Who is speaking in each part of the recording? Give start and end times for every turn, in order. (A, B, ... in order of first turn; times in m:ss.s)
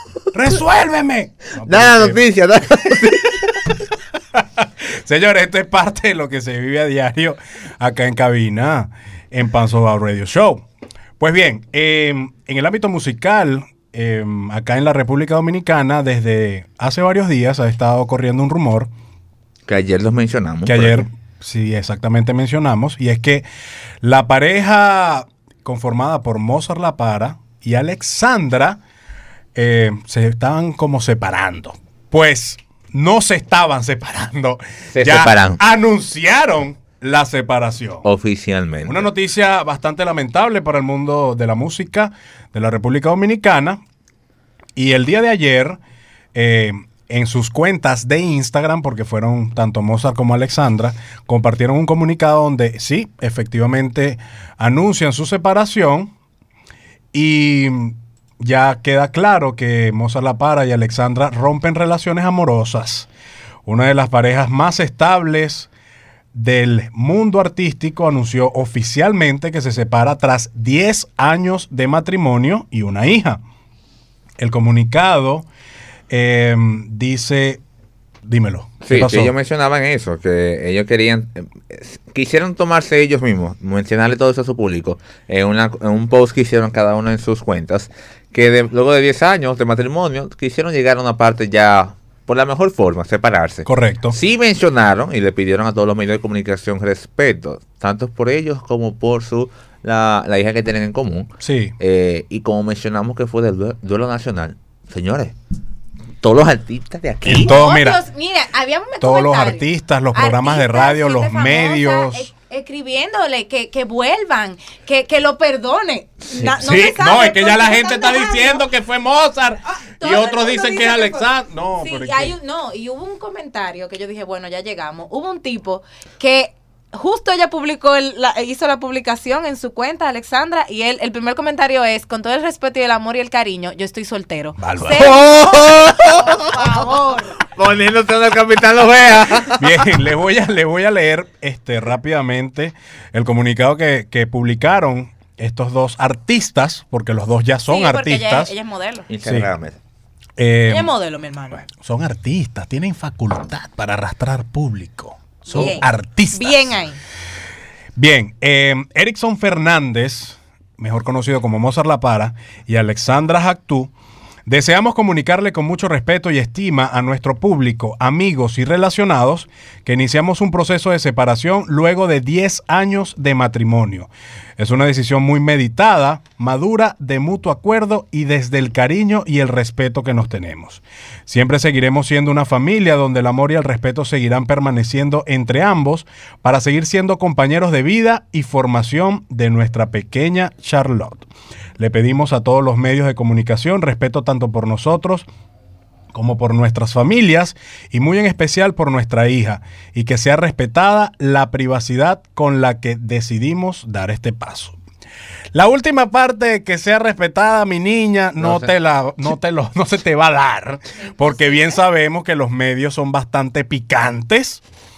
0:00.3-0:02.2 A
0:01.6-0:03.6 B
0:04.6-0:10.6 A
0:11.2-0:18.9 A
0:19.7-0:21.1 B
0:20.6-0:23.4 A
0:24.0-0:28.8 A
0:29.6-0:38.1 A
0:34.9-0:35.6 B
0:38.0-0:39.1 B
0:38.8-0:43.8 A
0:44.8-0:45.8 A
0:46.3-0:56.1 A
0:57.1-1:03.1 A
1:03.6-1:05.7 A
1:06.3-1:13.4 A
1:14.4-1:15.5 A
1:16.1-1:17.6 A
1:18.2-1:19.3 A
1:18.8-1:45.4 B
1:33.7-1:34.2 A
1:41.4-1:41.8 A
1:46.2-1:47.6 B
1:47.2-1:48.0 A
1:47.4-1:58.6 C
1:49.0-1:52.3 A
1:56.6-2:02.4 A
1:59.8-2:17.4 C
2:14.6-2:15.2 A
2:15.0-2:19.9 B
2:19.6-2:28.5 A
2:27.7-2:29.1 C
2:29.1-2:29.8 B
2:29.2-2:29.5 A
2:30.4-2:30.9 A
2:30.7-2:31.6 C
2:31.8-2:36.7 A
2:35.5-2:37.0 C
2:38.0-2:43.9 A
2:44.5-3:11.3 A
3:11.8-3:15.3 A
3:16.1-3:24.8 A
3:25.5-3:34.6 A
3:28.4-3:28.7 B
3:30.9-3:31.8 C